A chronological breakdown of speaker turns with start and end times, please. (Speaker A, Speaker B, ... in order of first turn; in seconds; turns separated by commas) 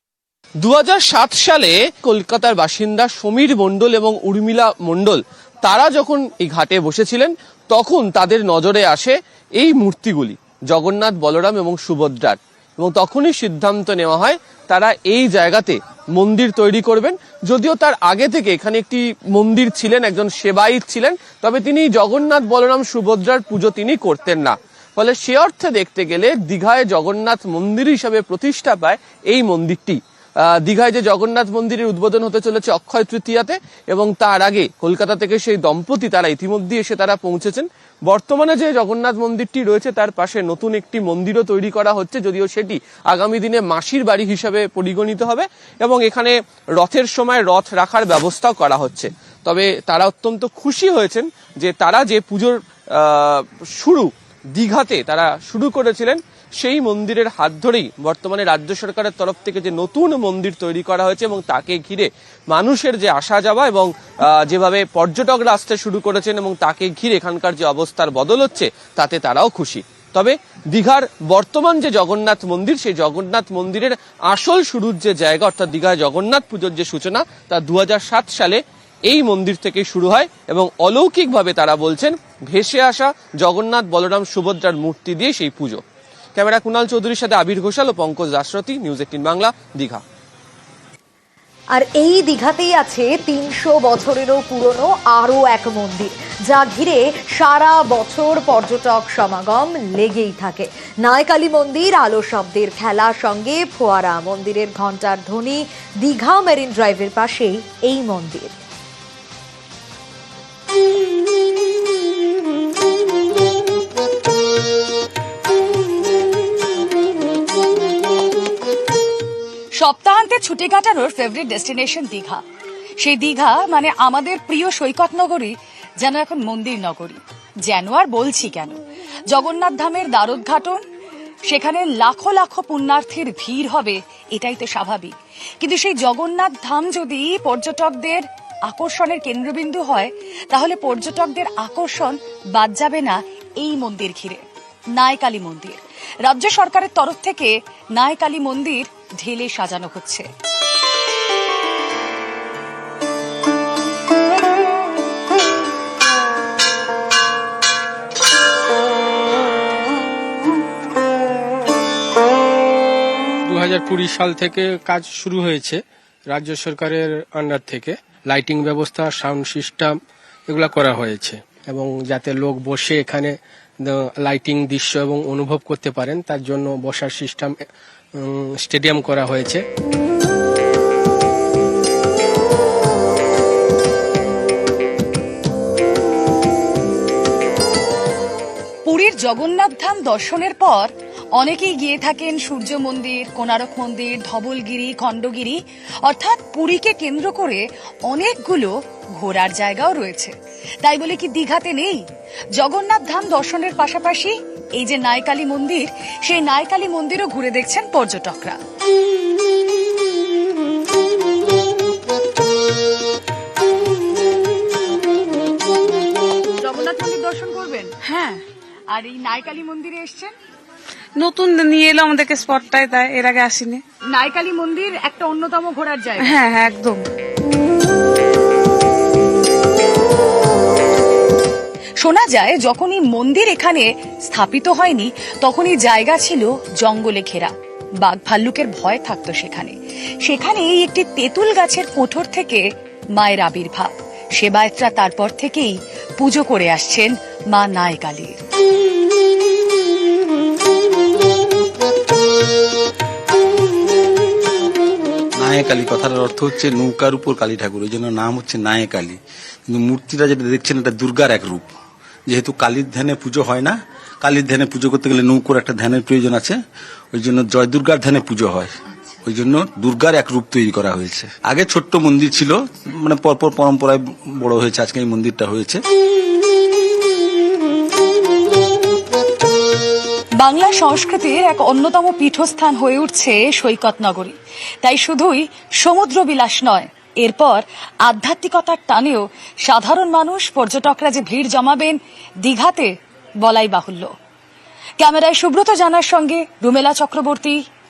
Speaker A: 0.6-30.0, Speaker A: 30.6-85.8, Speaker A: 86.3-90.0, Speaker B: 91.7-108.5, Speaker C: 119.8-122.4, Speaker C: 123.0-130.8, Speaker C: 131.5-144.4, Speaker C: 145.0-150.2, Speaker D: 163.5-165.8, Speaker D: 166.3-169.9, Speaker D: 170.5-173.3, Speaker D: 174.2-177.5, Speaker D: 178.7-179.6, Speaker C: 188.8-202.0, Speaker C: 202.6-208.6, Speaker C: 216.6-220.3, Speaker E: 221.2-223.8, Speaker C: 224.0-226.4, Speaker E: 226.2-227.0, Speaker C: 232.0-242.6, Speaker C: 243.2-248.4, Speaker F: 255.4-261.7, Speaker F: 262.3-266.6, Speaker F: 267.1-268.7, Speaker F: 269.2-275.8, Speaker C: 280.4-294.1, Speaker C: 295.0-297.6